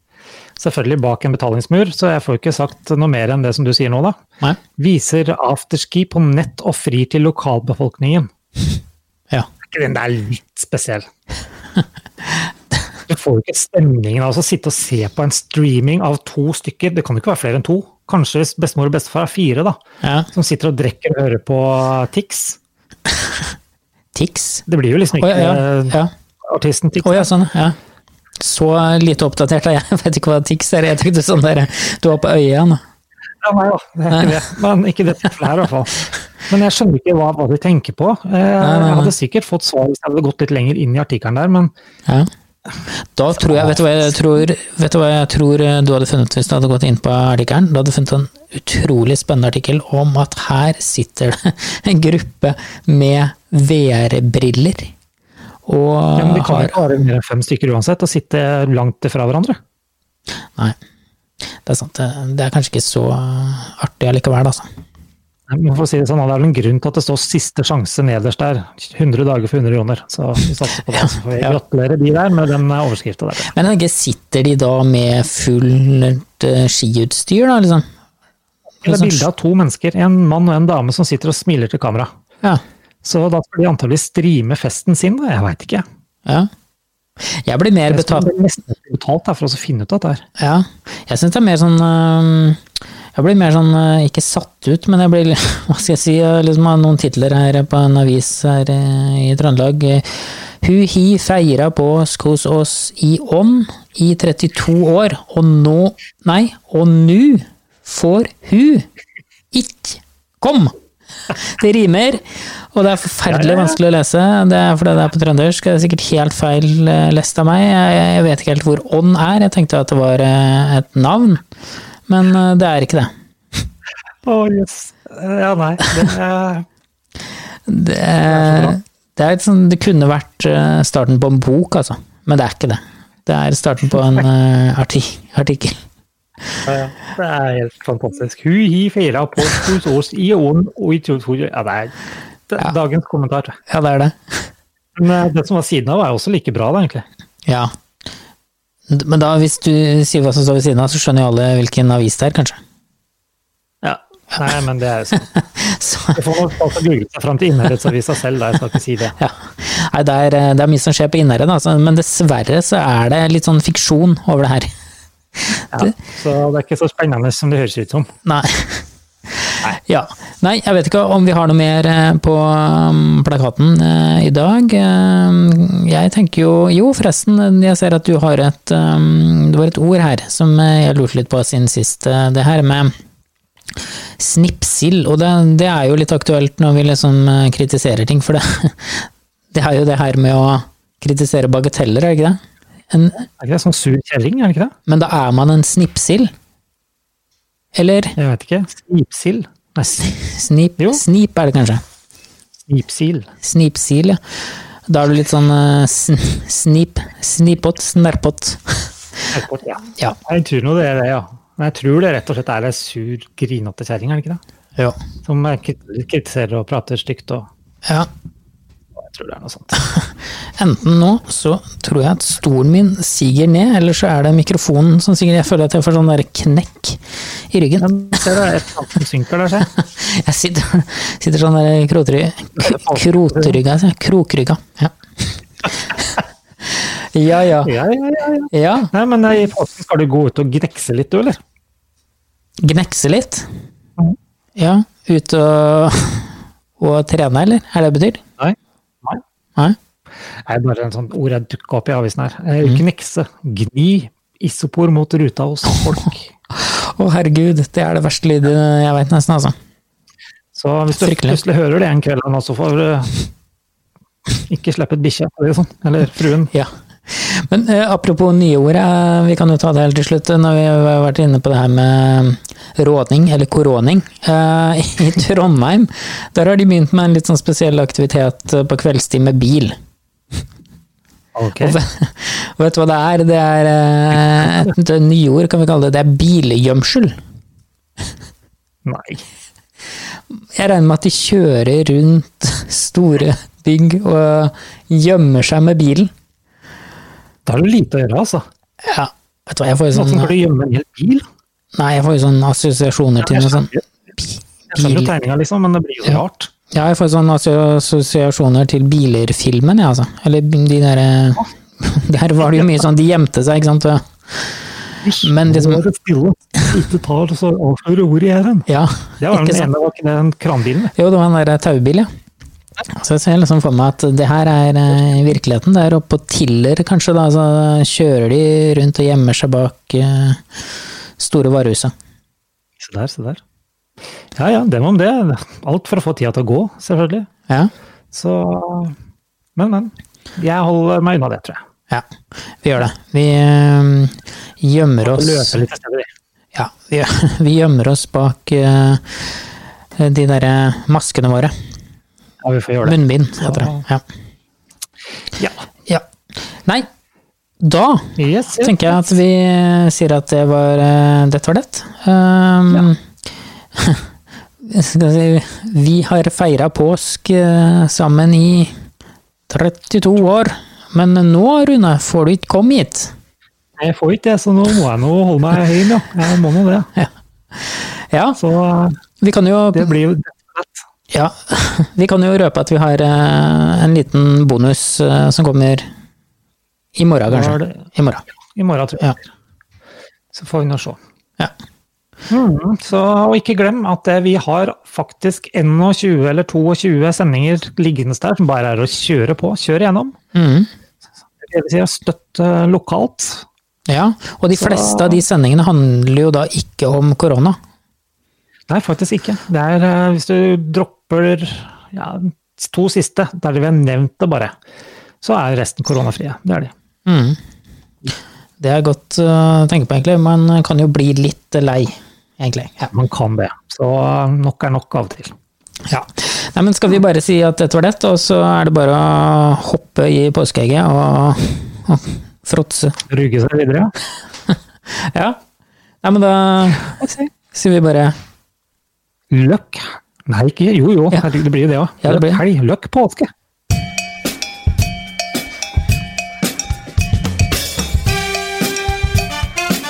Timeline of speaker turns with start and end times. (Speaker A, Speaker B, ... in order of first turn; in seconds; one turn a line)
Speaker A: 0.6-4.2
Speaker A: 4.8-8.3
Speaker A: 9.7-11.1
Speaker A: 13.1-19.8
Speaker B: 20.0-20.3
Speaker A: 20.3-22.6
Speaker B: 23.1-23.4
Speaker B: 24.1-24.6
Speaker A: 24.7-27.3
Speaker B: 25.2-26.1
Speaker B: 27.0-27.8
Speaker B: 28.4-32.8
Speaker A: 33.4-41.7
Speaker B: 38.6-39.1
Speaker B: 42.9-54.9
Speaker B: 55.6-56.8
Speaker A: 56.1-59.6
Speaker B: 61.6-64.7
Speaker A: 65.5-73.5
Speaker B: 71.0-71.5
Speaker B: 73.5-77.9
Speaker A: 78.8-82.1
Speaker B: 78.8-79.2
Speaker A: 83.0-85.8
Speaker B: 87.2-88.3
Speaker A: 87.9-90.2
Speaker B: 90.4-92.6
Speaker B: 93.1-108.9
Speaker B: 109.5-110.7
Speaker B: 111.3-121.4
Speaker A: 113.3-113.8
Speaker B: 122.1-123.1
Speaker A: 124.2-126.7
Speaker B: 127.7-135.8
Speaker A: 128.3-128.8
Speaker A: 136.7-141.9
Speaker A: 142.5-143.6
Speaker B: 143.7-144.5
Speaker A: 144.9-147.0
Speaker B: 147.4-147.7
Speaker B: 148.9-152.6
Speaker A: 153.8-155.2
Speaker B: 155.3-156.2
Speaker A: 156.1-159.2
Speaker B: 159.2-164.7
Speaker B: 165.6-165.9
Speaker A: 165.7-168.1
Speaker B: 168.2-182.9
Speaker B: 184.2-193.3
Speaker A: 193.4-194.7
Speaker B: 194.9-196.3
Speaker B: 197.7-198.1
Speaker A: 198.2-200.2
Speaker B: 200.2-201.8
Speaker A: 202.7-203.3
Speaker B: 203.4-208.9
Speaker A: 209.3-214.4
Speaker A: 215.2-217.5
Speaker A: 218.9-219.8
Speaker B: 219.8-228.2
Speaker A: 227.8-229.7
Speaker B: 229.7-237.7
Speaker A: 232.6-233.6
Speaker A: 237.6-241.4
Speaker B: 238.5-238.9
Speaker B: 242.6-243.5
Speaker B: 244.6-248.2
Speaker A: 248.4-249.2
Speaker A: 250.4-256.3
Speaker B: 256.5-259.5
Speaker A: 260.5-263.1
Speaker B: 261.0-261.4
Speaker A: 264.5-266.5
Speaker B: 266.5-279.8
Speaker A: 281.3-281.8
Speaker B: 281.6-287.2
Speaker A: 288.8-289.2
Speaker B: 290.3-296.1
Speaker A: 297.4-298.4
Speaker B: 298.8-300.3
Speaker A: 299.9-301.2
Speaker B: 301.7-303.7
Speaker A: 303.2-303.8
Speaker B: 304.3-305.1
Speaker A: 304.7-306.5
Speaker B: 306.7-314.6
Speaker A: 315.0-318.7
Speaker B: 315.2-315.8
Speaker B: 318.7-319.7
Speaker A: 319.2-320.9
Speaker B: 320.9-322.1
Speaker B: 322.9-330.4
Speaker B: 331.2-331.9
Speaker A: 332.8-333.4
Speaker A: 334.3-337.3
Speaker A: 338.1-338.9
Speaker A: 339.6-341.6
Speaker B: 342.6-345.6
Speaker A: 345.0-346.1
Speaker B: 346.5-349.4
Speaker B: 350.0-351.5
Speaker A: 352.4-353.8
Speaker B: 352.8-354.0
Speaker A: 355.4-355.6
Speaker B: 357.6-363.0
Speaker A: 358.2-359.0
Speaker B: 363.7-364.1
Speaker B: 364.6-368.8
Speaker B: 369.5-373.1
Speaker A: 373.8-376.9
Speaker B: 376.9-378.4
Speaker A: 378.4-379.0
Speaker B: 379.2-380.0
Speaker A: 379.7-380.8
Speaker B: 381.1-385.9
Speaker B: 386.9-388.2
Speaker A: 387.3-387.8
Speaker A: 388.6-389.2
Speaker A: 390.3-391.0
Speaker A: 392.3-400.1
Speaker B: 400.3-400.7
Speaker A: 401.4-403.4
Speaker B: 403.9-407.6
Speaker A: 404.5-405.2
Speaker A: 408.7-414.5
Speaker A: 415.2-416.7
Speaker B: 417.1-417.4
Speaker B: 418.6-422.9
Speaker A: 422.9-425.3
Speaker B: 425.9-433.0
Speaker A: 433.1-433.9
Speaker B: 434.5-435.4
Speaker B: 436.0-438.1
Speaker A: 439.3-443.3
Speaker B: 442.0-442.4